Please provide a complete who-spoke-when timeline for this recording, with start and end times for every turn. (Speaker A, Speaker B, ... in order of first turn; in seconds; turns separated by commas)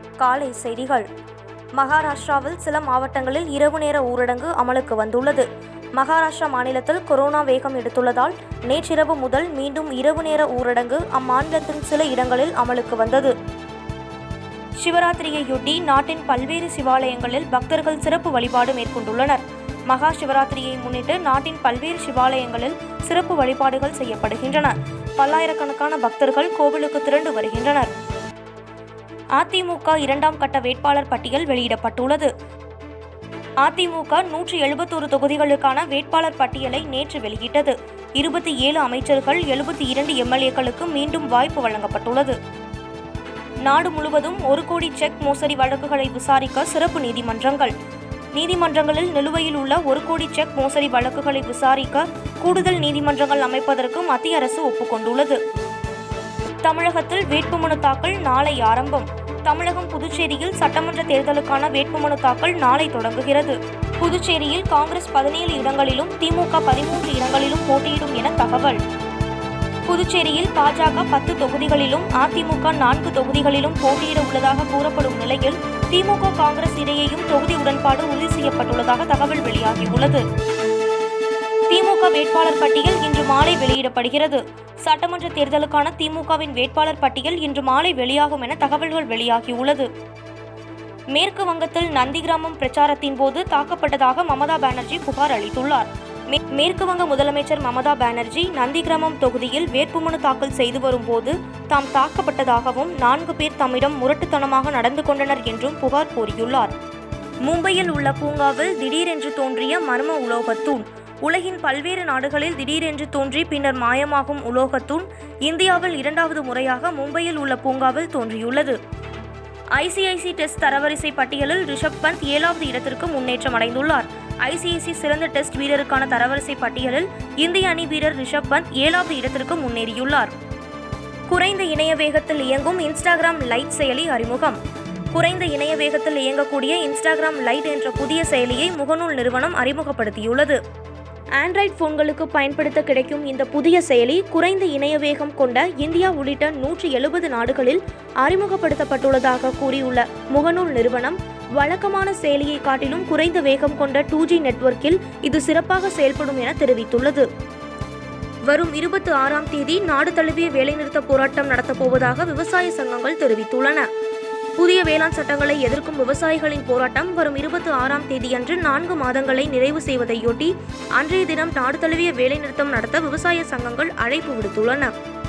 Speaker A: 0.2-1.1, Speaker A: 1.8-13.3, Speaker A: 14.8-27.9, Speaker A: 29.4-32.3, Speaker A: 33.6-42.4, Speaker A: 43.6-47.7, Speaker A: 48.3-55.4, Speaker A: 56.6-68.8, Speaker A: 69.9-80.2, Speaker A: 81.7-89.9, Speaker A: 91.1-106.7, Speaker A: 107.4-118.8, Speaker A: 119.7-130.3, Speaker A: 131.3-134.6, Speaker A: 135.1-140.6, Speaker A: 141.4-157.3, Speaker A: 158.5-163.9, Speaker A: 164.6-174.9